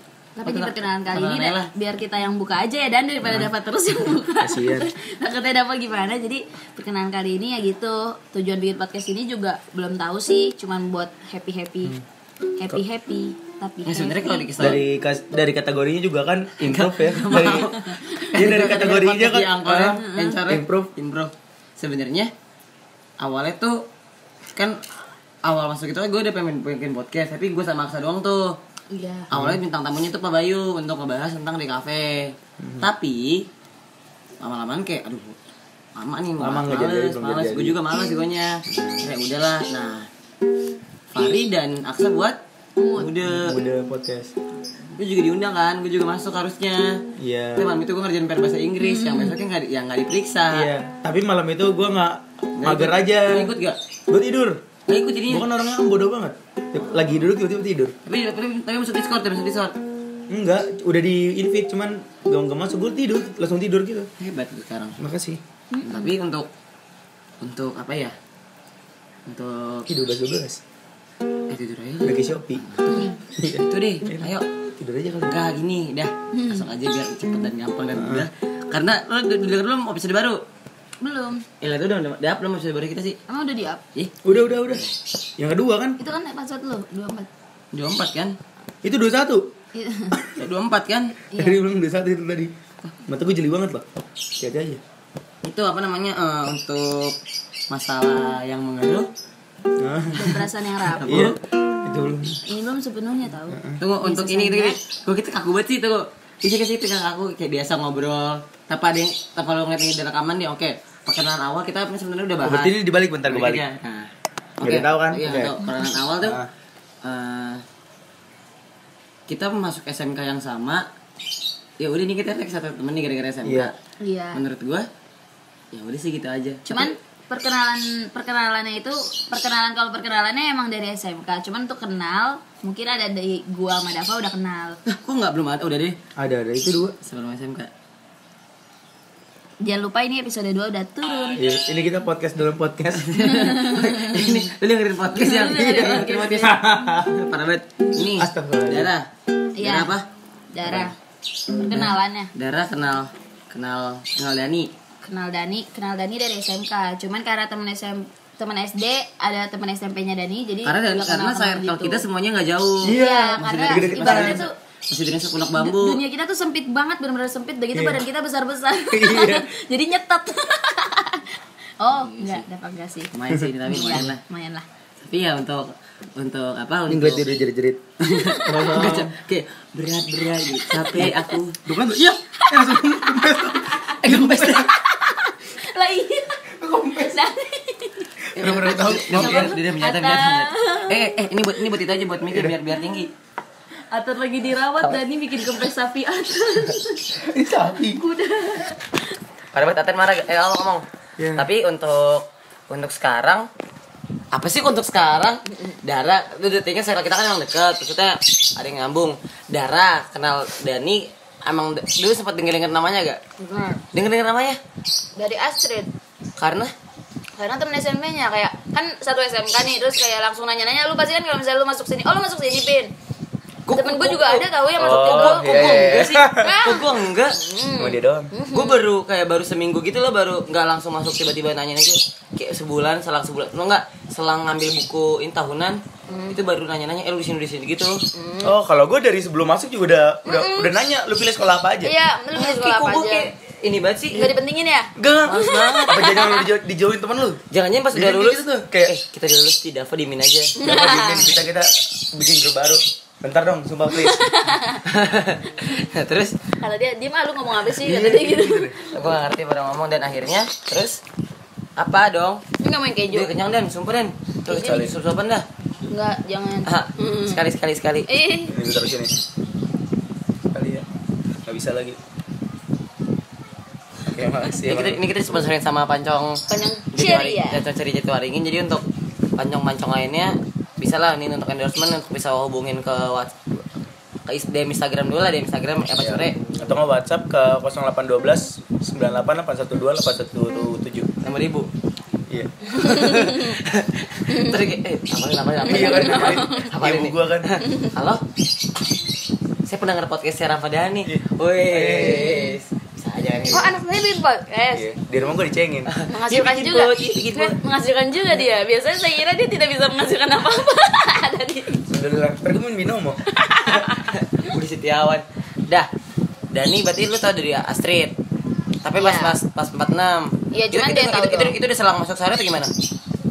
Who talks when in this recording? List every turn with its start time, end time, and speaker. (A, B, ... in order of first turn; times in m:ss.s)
0:00.4-0:11.9 A
0:00.4-0:01.7 B
0:04.4-0:04.9 C
0:12.6-0:14.5 A
0:13.8-0:14.8 B
0:14.6-0:20.9 C
0:16.6-0:22.3 B
0:17.4-0:17.6 A
0:19.9-0:20.4 A
0:23.2-0:23.8 B
0:24.6-0:24.8 B
0:25.4-0:28.6 B
0:28.9-0:29.3 A
0:29.3-0:33.5 B
0:29.3-0:29.6 C
0:32.6-0:32.9 C
0:34.4-0:35.4 B
0:36.0-0:40.1 B
0:36.4-0:37.8 C
0:38.7-0:39.0 C
0:41.1-0:42.4 B
0:42.8-0:43.1 A
0:43.0-0:43.6 B
0:43.2-0:44.3 C
0:44.9-0:47.0 B
0:47.2-0:47.7 C
0:47.6-0:50.7 B
0:48.8-0:49.4 A
0:50.5-0:53.5 C
0:52.6-0:53.8 B
0:54.1-0:54.6 C
0:54.9-0:55.4 B
0:55.3-0:57.9 C
0:58.0-0:59.8 B
1:00.3-1:04.1 C
1:04.2-1:05.0 B
1:05.0-1:05.4 C
1:05.7-1:06.1 A
1:05.8-1:06.5 B
1:07.4-1:08.1 B
1:09.3-1:09.9 B
1:09.8-1:10.6 C
1:11.5-1:14.4 B
1:12.0-1:12.6 C
1:12.9-1:13.2 A
1:13.3-1:15.4 C
1:15.2-1:20.4 B
1:16.3-1:16.6 A
1:17.9-1:18.2 C
1:21.0-1:21.4 A
1:21.6-1:23.2 B
1:23.3-1:23.8 A
1:24.2-1:24.8 C
1:25.4-1:26.0 C
1:26.0-1:27.3 A
1:27.7-1:28.4 B
1:28.8-1:29.5 C
1:29.7-1:30.2 A
1:30.1-1:30.4 C
1:30.3-1:31.2 B
1:31.3-1:31.6 A
1:31.3-1:32.5 C
1:33.1-1:34.8 C
1:35.4-1:37.2 B
1:37.7-1:39.1 B
1:39.8-1:40.4 C
1:40.1-1:41.2 A
1:40.9-1:41.3 B
1:41.0-1:42.4 C
1:42.5-1:44.8 A
1:43.5-1:43.8 C
1:43.8-1:52.7 B
1:52.4-1:53.6 C
1:53.2-1:54.1 B
1:54.6-1:56.4 B
1:54.6-1:55.6 C
1:56.2-1:56.5 C
1:57.0-1:57.6 B
1:59.3-2:00.8 B
2:01.8-2:03.7 B
2:03.4-2:03.7 C
2:04.0-2:04.4 A
2:04.3-2:04.9 B
2:05.7-2:06.9 B
2:06.7-2:14.8 A
2:14.8-2:16.0 B
2:16.2-2:17.0 C
2:17.0-2:17.7 B
2:19.6-2:21.4 A
2:21.3-2:23.1 C
2:23.0-2:29.1 B
2:23.2-2:24.4 A
2:25.2-2:26.6 A
2:25.6-2:27.1 C
2:28.2-2:28.9 C
2:29.6-2:29.9 A
2:29.6-2:30.0 B
2:30.5-2:31.0 A
2:30.6-2:30.9 C
2:31.6-2:32.3 A
2:32.3-2:34.7 B
2:35.0-2:42.0 A
2:40.6-2:46.0 B
2:42.8-2:44.4 C
2:42.9-2:44.5 A
2:45.6-2:53.1 A
2:47.7-2:48.0 C
2:48.8-2:49.5 C
2:51.9-2:52.4 B
2:53.1-2:54.2 B
2:53.7-2:54.6 A
2:55.0-2:57.2 B
2:56.9-2:57.8 C
2:58.0-3:01.6 B
2:58.2-2:58.6 A
2:58.4-2:59.1 C
3:00.9-3:04.7 C
3:02.4-3:11.2 A
3:04.0-3:04.7 B
3:06.6-3:07.2 C
3:08.3-3:13.1 B
3:08.4-3:09.6 C
3:12.2-3:12.5 C
3:13.9-3:17.2 A
3:17.2-3:18.0 C
3:17.8-3:18.9 A
3:19.5-3:20.8 B
3:21.2-3:21.4 C
3:21.4-3:23.5 B
3:24.3-3:33.2 B
3:33.4-3:33.8 A
3:33.9-3:34.6 B
3:35.2-3:35.9 A
3:36.4-3:36.7 B
3:37.4-3:42.9 A
3:43.7-3:47.4 B
3:43.7-3:48.8 A
3:44.8-3:46.6 C
3:47.8-3:48.3 C
3:48.5-3:58.0 B
3:56.1-3:56.4 A
3:58.1-3:58.6 A
3:58.4-4:01.9 C
4:00.2-4:00.7 A
4:01.8-4:03.3 A
4:02.3-4:04.3 B
4:04.1-4:06.5 A
4:05.0-4:07.4 C
4:05.2-4:06.1 B
4:07.5-4:10.6 B
4:07.9-4:08.9 C
4:10.6-4:11.3 A
4:10.6-4:14.2 C
4:13.9-4:14.8 A
4:14.8-4:16.4 B
4:16.6-4:18.8 A
4:17.7-4:18.8 C
4:18.8-4:21.0 B
4:21.8-4:22.4 B
4:22.6-4:23.3 A
4:23.1-4:25.4 B
4:24.5-4:24.8 A
4:24.5-4:24.9 C
4:25.8-4:27.4 A
4:26.6-4:28.1 B
4:28.1-4:28.5 A
4:28.5-4:29.2 C
4:30.5-4:30.8 C
4:31.4-4:32.0 C
4:34.0-4:35.0 C
4:34.6-4:43.6 B
4:36.5-4:37.6 A
4:44.2-4:46.4 B
4:46.0-4:51.1 C
4:51.2-4:51.7 B
4:52.3-4:52.7 C
4:52.7-4:58.2 B
4:52.8-4:53.5 A
4:54.3-4:54.6 A
4:55.6-4:57.5 C
4:55.7-4:56.7 A
4:59.6-5:03.8 B
5:01.0-5:02.3 C
5:02.1-5:02.6 A
5:03.5-5:04.9 A
5:04.7-5:06.6 C
5:05.9-5:07.5 B
5:06.1-5:11.8 A
5:11.9-5:13.2 C
5:13.3-5:14.1 A
5:13.9-5:15.9 B
5:16.5-5:18.1 B
5:18.8-5:22.7 B
5:19.0-5:19.3 A
5:20.5-5:21.6 A